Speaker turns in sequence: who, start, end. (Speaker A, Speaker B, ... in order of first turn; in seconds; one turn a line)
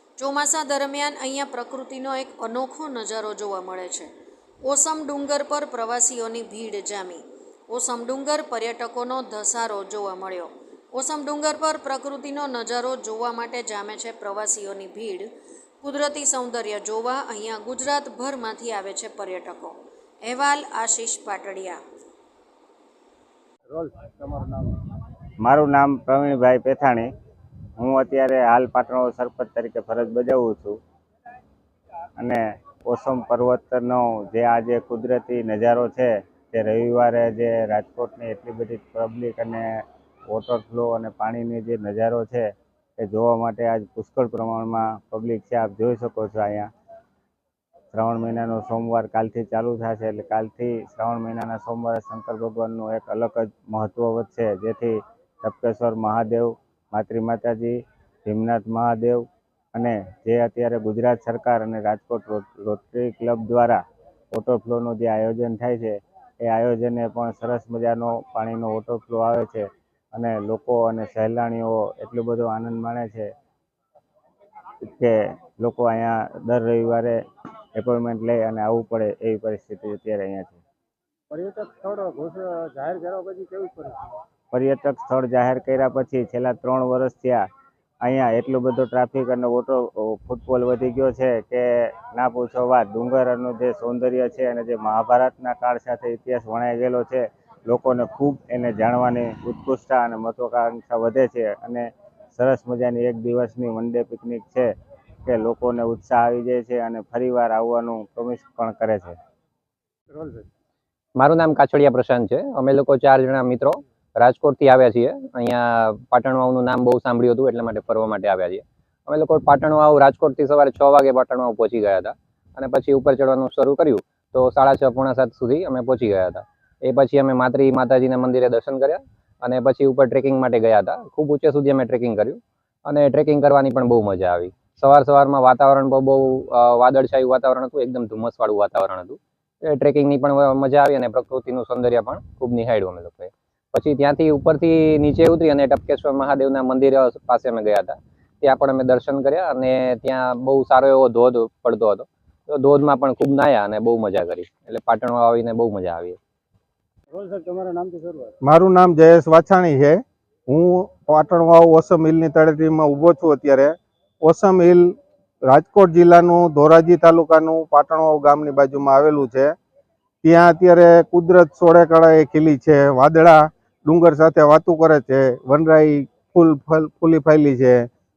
Speaker A: 0.2-4.1
Speaker A: 4.6-15.3
Speaker A: 15.8-21.8
Speaker B: 23.7-24.8
Speaker C: 25.4-27.1
Speaker C: 27.8-30.8
Speaker C: 32.2-46.7
Speaker C: 47.9-73.3
Speaker C: 74.9-77.2
Speaker C: 77.8-80.6
Speaker B: 81.3-84.2
Speaker C: 84.5-87.4
Speaker C: 88.0-104.7
Speaker C: 105.3-109.2
Speaker B: 110.1-110.5
Speaker D: 111.2-156.2
Speaker B: 157.1-158.3
Speaker E: 158.4-169.5
Speaker E: 170.2-177.9